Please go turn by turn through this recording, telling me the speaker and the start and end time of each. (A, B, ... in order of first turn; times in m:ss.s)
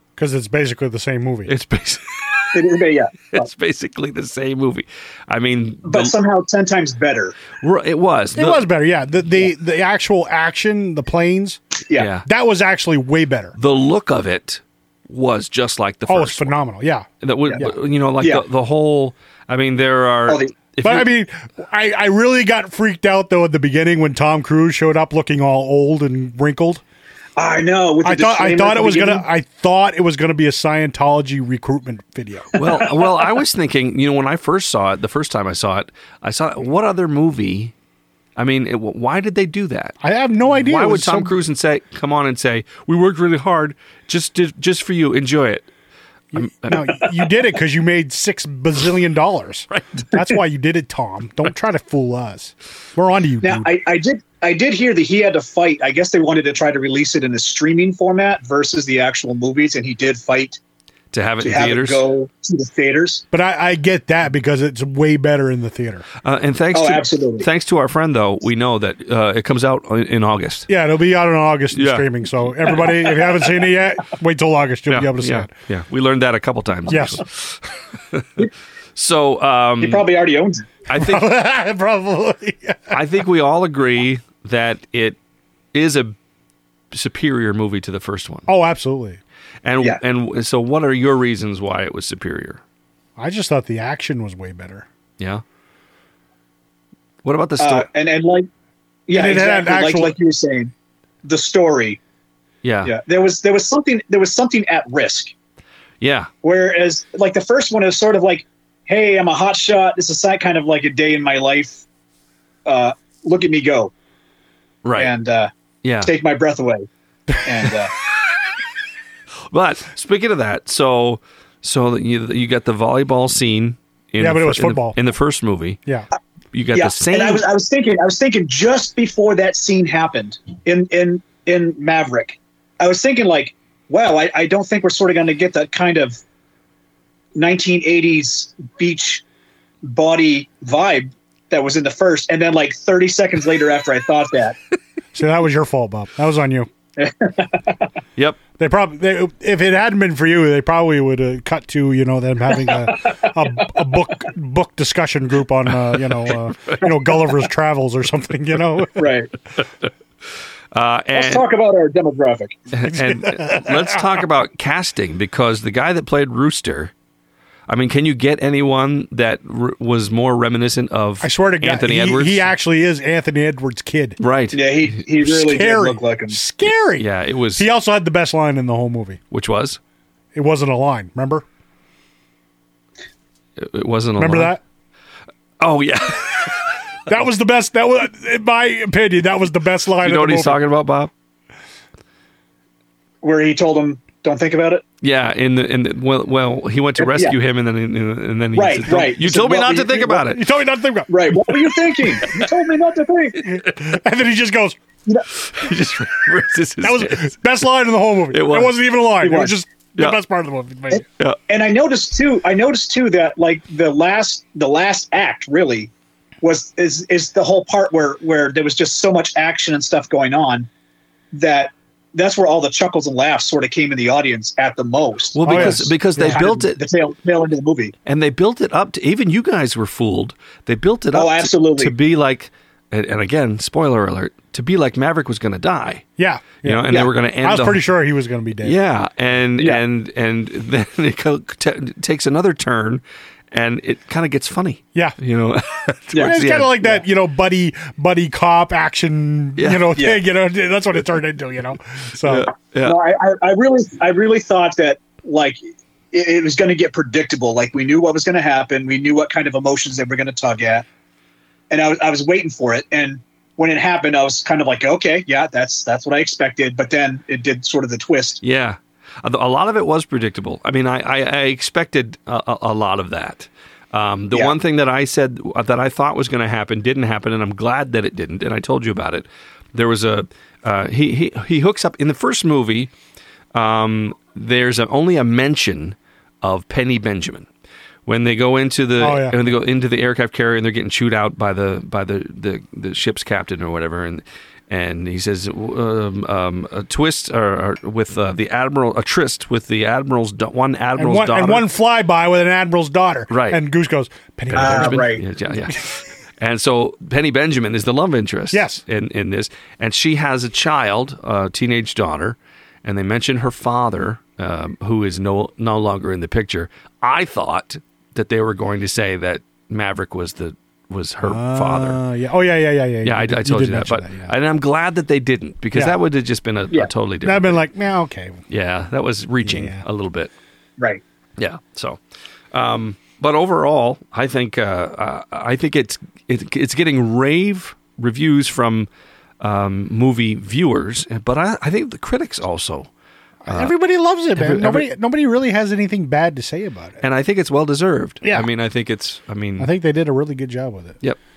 0:00.2-0:01.5 A
0:01.5-0:02.6 B
0:02.5-0:03.5 C
0:03.3-0:06.1 B
0:05.8-0:07.4 C
0:07.6-0:08.6 B
0:08.4-0:11.6 A
0:12.0-0:12.3 B
0:12.3-0:13.6 A
0:13.6-0:16.5 B
0:16.1-0:17.1 A
0:17.2-0:21.1 B
0:20.3-0:20.5 C
0:20.8-0:26.8 A
0:27.4-0:29.3 C
0:28.0-0:32.6 A
0:32.6-0:37.7 B
0:38.4-0:40.0 B
0:40.0-0:41.4 A
0:40.5-0:45.7 B
0:46.3-0:47.2 B
0:46.3-0:53.7 A
0:49.7-0:50.1 B
0:53.4-1:00.6 C
1:01.1-1:02.0 B
1:01.4-1:03.2 C
1:03.3-1:06.1 A
1:06.2-1:10.7 B
1:06.7-1:07.5 C
1:10.7-1:15.5 A
1:11.7-1:12.1 B
1:14.9-1:18.4 B
1:16.9-1:17.2 A
1:19.0-1:20.1 B
1:19.8-1:20.7 C
1:20.9-1:21.3 B
1:20.9-1:23.0 A
1:22.9-1:25.2 B
1:25.7-1:26.2 B
1:26.9-1:28.5 B
1:28.5-1:29.2 A
1:29.6-1:32.6 B
1:33.2-1:34.9 A
1:37.2-1:37.9 B
1:37.6-1:38.5 C
1:39.1-1:40.7 C
1:39.1-1:40.1 A
1:41.2-1:42.0 C
1:42.6-1:42.9 B
1:42.8-1:45.3 C
1:46.0-1:46.3 B
1:46.4-1:51.8 C
1:52.6-1:53.9 C
1:54.8-1:55.1 B
1:55.0-1:55.5 C
1:55.8-1:56.1 B
1:56.0-1:56.9 C
1:57.4-1:57.9 C
1:59.5-2:05.8 B
2:04.2-2:05.0 A
2:06.5-2:07.4 B
2:06.7-2:16.2 C
2:17.4-2:19.2 C
2:19.8-2:24.6 C
2:25.1-2:26.7 A
2:27.0-2:27.8 C
2:28.6-2:39.1 A
2:32.7-2:33.2 C
2:35.9-2:36.8 B
2:39.0-2:39.3 C
2:40.7-2:41.4 B
2:41.1-2:42.6 C
2:42.7-2:46.9 B
2:42.9-2:44.0 A
2:47.7-2:52.5 B
2:51.2-2:54.2 A
2:54.2-2:55.0 B
2:54.5-2:56.4 C
2:55.2-2:59.2 A
2:57.0-2:57.6 B
2:59.3-2:59.8 B
3:00.4-3:01.4 A
3:03.6-3:04.6 B
3:04.2-3:04.6 A
3:05.6-3:06.6 B
3:07.1-3:10.6 A
3:10.0-3:11.1 B
3:13.2-3:14.8 C
3:15.0-3:20.4 B
3:17.0-3:17.4 C
3:18.5-3:20.2 C
3:20.2-3:21.6 A
3:21.1-3:23.4 C
3:23.4-3:24.8 A
3:25.4-3:27.4 B
3:26.8-3:31.0 A
3:28.3-3:28.8 B
3:29.2-3:29.6 C
3:30.9-3:35.9 C
3:36.4-3:40.7 C
3:41.3-3:47.9 C
3:45.3-3:46.8 B
3:45.4-3:46.4 A
3:48.0-3:56.0 B
3:51.1-3:51.9 C
3:56.2-3:58.8 A
3:56.6-3:57.8 B
3:58.6-4:06.9 B
4:06.1-4:06.9 C
4:06.2-4:12.5 A
4:09.6-4:10.0 B
4:10.0-4:10.2 C
4:12.2-4:13.0 B
4:12.8-4:20.9 C
4:21.7-4:28.4 C
4:28.4-4:42.9 B
4:43.5-4:47.5 B
4:48.1-5:01.6 B
4:49.0-4:49.5 A
5:01.0-5:05.2 A
5:03.3-5:03.6 B
5:04.5-5:22.0 B
5:04.6-5:05.2 C
5:08.5-5:08.8 A
5:21.2-5:24.3 A
5:23.0-5:27.6 B
5:27.2-5:28.4 A
5:28.5-5:30.3 B
5:29.4-5:29.8 A
5:31.4-5:32.0 B
5:32.5-5:38.9 B
5:39.4-5:42.9 B
5:43.4-5:47.0 A
5:43.5-5:43.7 B
5:44.4-5:44.9 B
5:47.0-5:49.7 B
5:48.2-5:48.5 A
5:49.6-5:51.0 A